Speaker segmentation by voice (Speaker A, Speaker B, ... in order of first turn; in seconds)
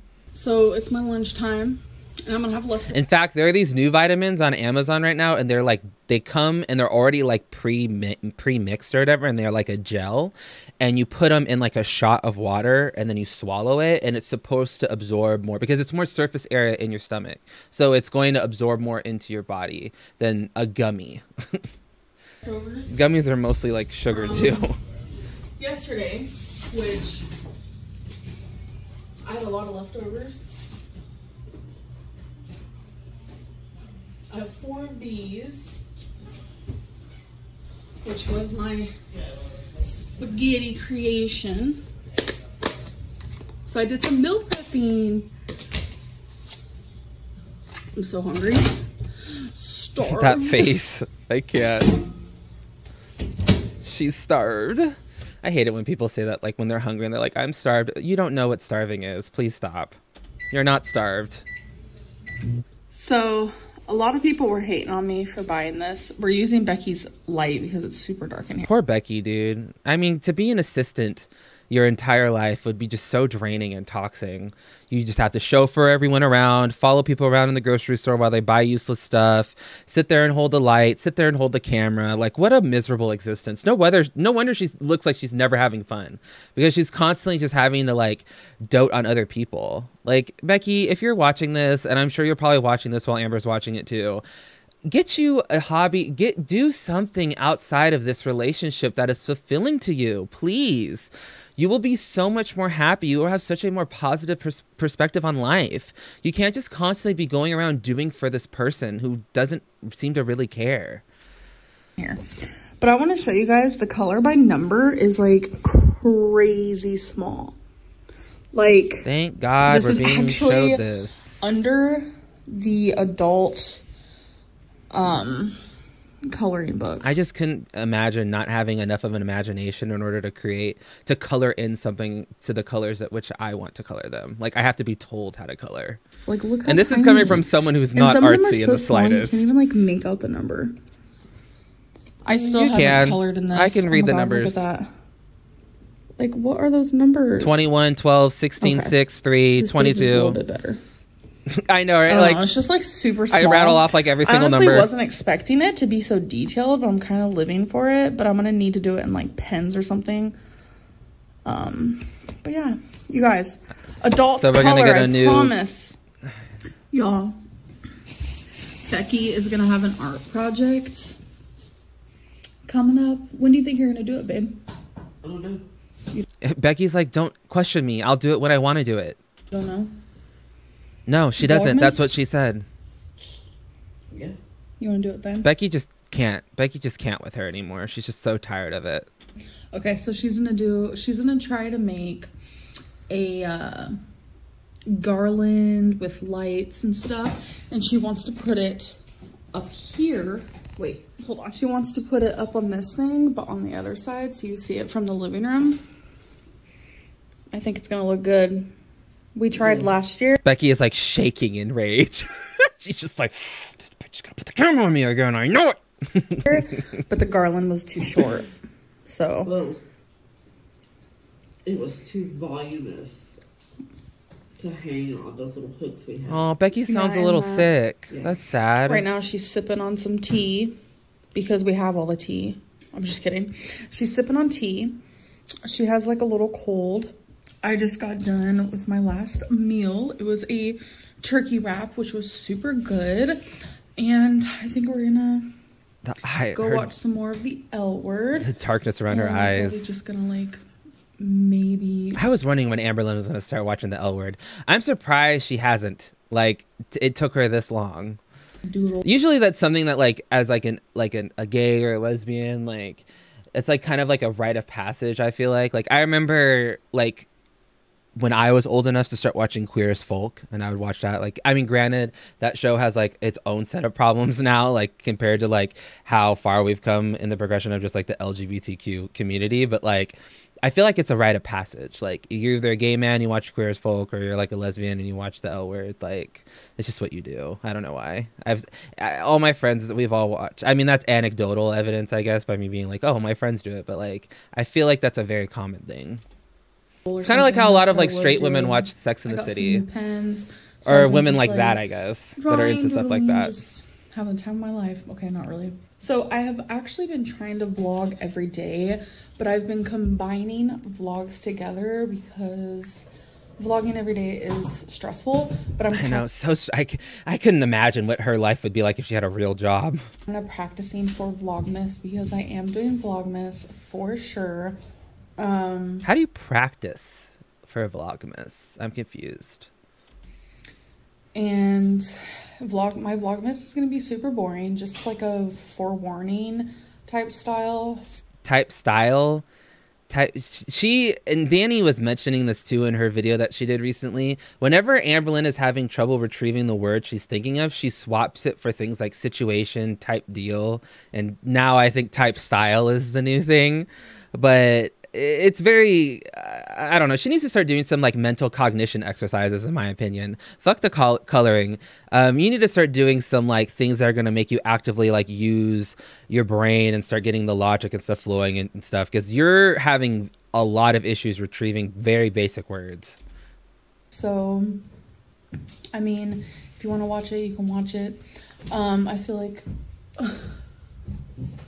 Speaker A: 0.3-3.0, 22.4-23.0, 24.1-24.7, 25.6-27.2, 29.2-30.5, 34.3-35.8, 38.0-38.9, 39.8-41.8, 43.6-45.3, 47.9-48.7, 49.4-50.7, 62.9-68.7, 112.8-117.5, 118.5-119.1, 119.6-120.8, 121.4-123.8, 124.9-125.6, 126.2-127.2, 136.2-137.4, 137.9-140.7, 142.2-144.9, 146.2-147.6, 148.6-148.9, 149.6-150.8, 152.1-160.3, 161.4-165.9, 166.9-167.4, 168.8-171.2, 172.7-174.6, 179.5-179.9, 181.4-182.1, 184.8-185.5, 189.7-192.3, 193.1-194.0, 194.9-199.0, 199.5-205.8, 207.5-208.7, 209.3-210.4, 216.5-218.5, 219.1-219.5, 226.9-227.7, 228.8-230.8, 231.3-235.0, 235.6-243.4, 244.0-245.5, 246.5-248.5, 249.1-250.6, 251.2-252.2, 258.6-259.1, 297.1-301.8, 302.4-313.1, 313.6-316.2, 320.3-324.8, 325.4-326.1, 331.3-332.1, 332.6-338.2, 374.1-374.8, 375.9-379.6, 380.2-380.5
Speaker B: 2.9-21.6, 22.9-24.8, 50.0-51.9, 53.8-59.9, 60.5-61.4, 68.7-94.2, 94.9-111.0, 119.0-121.4, 127.0-136.0, 136.7-139.5, 142.3-144.6, 147.4-150.4, 151.5-152.5, 153.3-154.9, 164.3-165.5, 176.4-179.2, 181.1-182.7, 185.4-189.1, 210.4-217.0, 226.3-229.0, 246.0-246.9, 248.4-249.9, 252.1-258.2, 259.0-267.3, 268.1-296.2, 297.2-299.8, 300.8-303.6, 315.9-320.0, 326.0-329.7, 338.4-339.4, 340.1-373.2
Speaker C: 175.2-175.6, 184.1-184.4, 209.6-209.9, 219.4-219.8, 221.6-223.4, 224.6-226.5, 228.1-228.3